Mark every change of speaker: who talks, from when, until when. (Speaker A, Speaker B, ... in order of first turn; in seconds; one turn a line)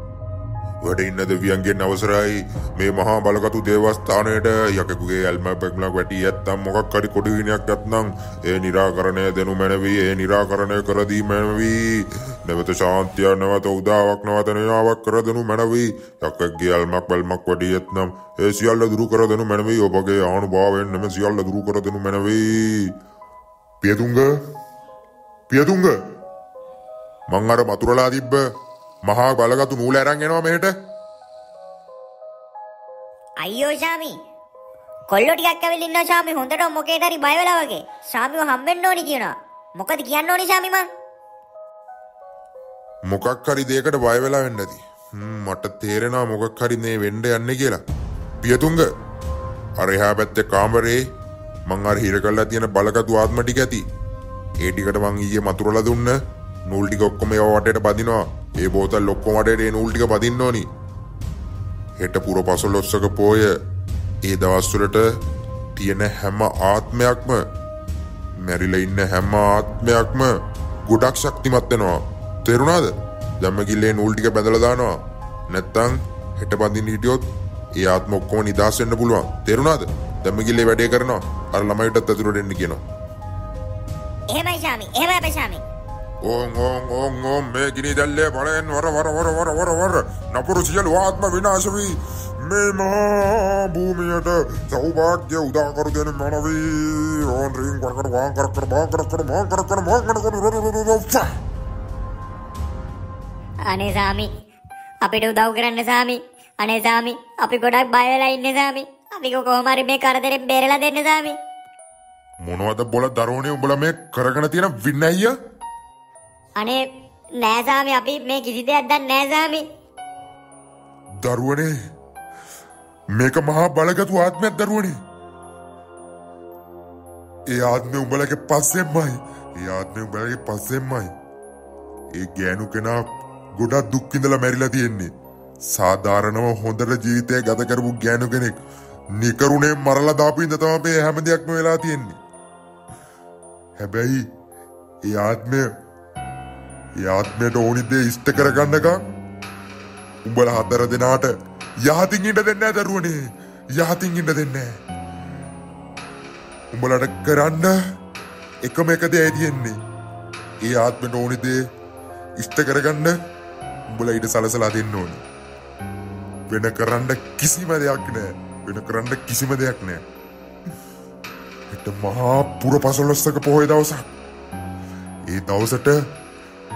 Speaker A: 0.8-22.9
Speaker A: 23.8-24.3
Speaker A: 25.5-25.9
Speaker A: 27.3-28.4
Speaker A: 29.1-30.7
Speaker B: 33.4-34.1
Speaker B: 35.1-40.9
Speaker A: 43.1-47.8
Speaker A: 48.4-48.9
Speaker A: 49.8-51.0
Speaker A: 51.7-53.9
Speaker A: 54.6-60.7
Speaker A: 62.0-63.5
Speaker A: 64.2-65.2
Speaker A: 65.7-67.4
Speaker A: 68.4-75.0
Speaker A: 75.5-77.2
Speaker A: 77.8-82.8
Speaker B: 84.3-85.6
Speaker A: 86.2-101.4
Speaker B: 103.7-104.3
Speaker B: 105.0-111.4
Speaker A: 112.4-115.3
Speaker B: 116.6-119.7
Speaker A: 121.2-121.7
Speaker A: 123.1-125.0
Speaker A: 127.5-131.1
Speaker A: 132.2-133.1
Speaker A: 133.6-135.1
Speaker A: 135.7-138.6
Speaker A: 139.2-142.2
Speaker A: 143.8-144.2
Speaker A: 145.1-145.7
Speaker A: 147.0-149.0
Speaker A: 150.2-151.3
Speaker A: 151.8-153.2
Speaker A: 153.8-154.7
Speaker A: 156.7-157.7
Speaker A: 158.6-159.8
Speaker A: 160.6-161.6
Speaker A: 162.4-163.2
Speaker A: 163.9-165.2
Speaker A: 166.5-170.0
Speaker A: 171.7-174.1
Speaker A: 175.3-176.0